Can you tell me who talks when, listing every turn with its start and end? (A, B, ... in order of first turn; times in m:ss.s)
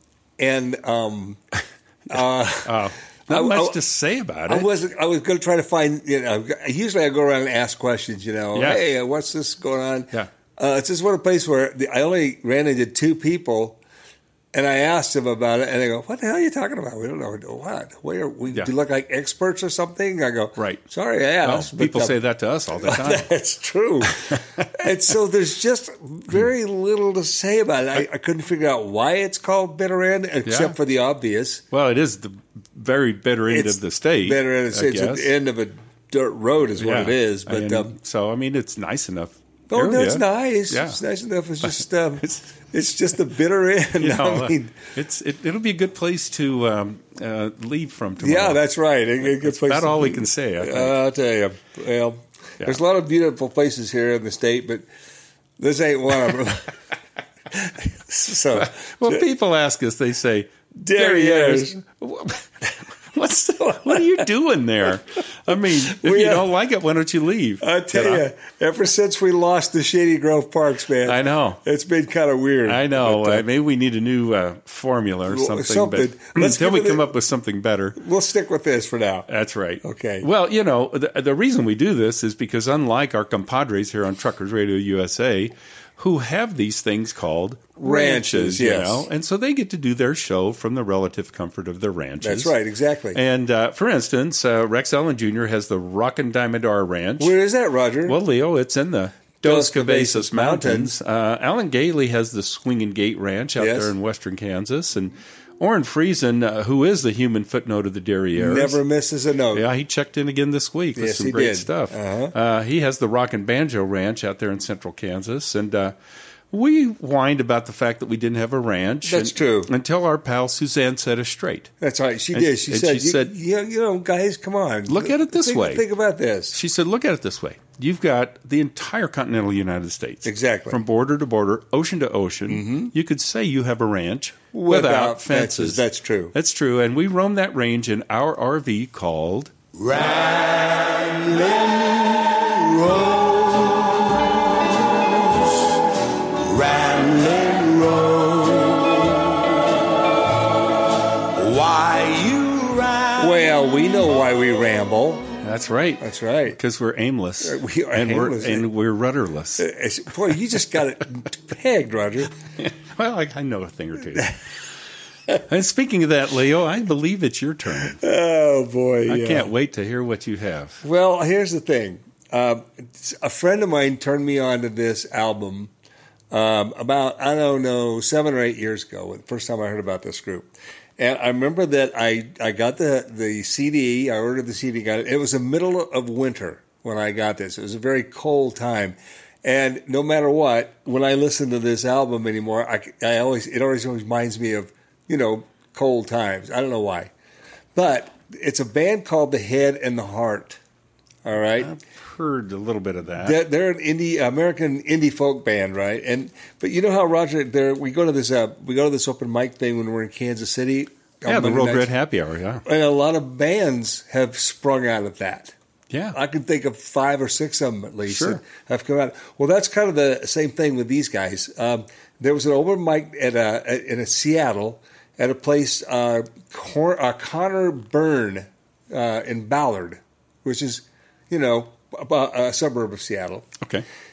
0:00.4-0:01.4 A
0:02.1-0:03.8 A
0:02.6-0:04.7 B
0:04.5-0:13.8 A
0:08.5-0:08.8 B
0:14.5-0:22.2 A
0:20.6-0:20.8 B
0:21.4-0:23.3 B
0:22.7-0:24.2 A
0:24.2-0:24.6 B
0:24.7-0:31.6 A
0:30.4-0:30.7 B
0:31.7-0:35.3 B
0:33.5-0:37.9 A
0:36.8-0:41.0 B
0:39.7-0:44.7 A
0:41.6-0:42.4 B
0:44.0-0:48.6 B
0:48.2-0:54.8 A
0:49.2-0:51.0 B
0:55.6-0:56.7 A
0:57.5-0:59.2 A
0:58.6-1:02.4 B
1:00.8-1:01.8 A
1:03.1-1:08.2 B
1:03.6-1:04.0 A
1:05.8-1:06.5 A
1:07.6-1:13.4 A
1:11.0-1:11.6 B
1:12.7-1:18.0 B
1:15.3-1:17.1 A
1:18.0-1:19.3 A
1:19.3-1:32.5 B
1:19.8-1:20.3 A
1:27.8-1:29.1 A
1:32.2-1:33.2 A
1:33.1-1:37.3 B
1:37.2-1:38.2 A
1:38.0-1:48.8 B
1:39.4-1:41.0 A
1:43.6-1:43.9 A
1:48.4-1:49.6 A
1:49.5-1:55.9 B
1:51.0-1:52.3 A
1:56.5-2:01.7 B
1:59.0-1:59.7 A
2:01.8-2:06.6 A
2:02.3-2:03.3 B
2:04.9-2:05.8 B
2:06.5-2:19.5 B
2:10.2-2:10.8 A
2:12.5-2:12.9 A
2:14.5-2:16.3 A
2:19.8-2:25.5 C
2:26.3-2:29.6 C
2:31.3-2:33.2 C
2:33.2-2:35.3 A
2:35.4-2:39.7 B
2:36.0-2:36.6 A
2:37.4-2:38.7 A
2:39.6-2:42.3 A
2:42.6-2:44.4 B
2:45.4-2:48.0 B
2:47.8-2:49.5 A
2:49.1-2:50.8 B
2:50.8-2:55.7 A
2:56.3-3:17.1 A
3:17.7-3:20.6 A
3:21.2-3:21.7 A
3:21.6-3:23.4 B
3:23.2-3:31.9 A
3:31.2-3:32.6 B
3:32.6-3:35.5 A
3:35.9-3:36.2 B
3:36.1-3:53.5 A
3:38.1-3:38.4 B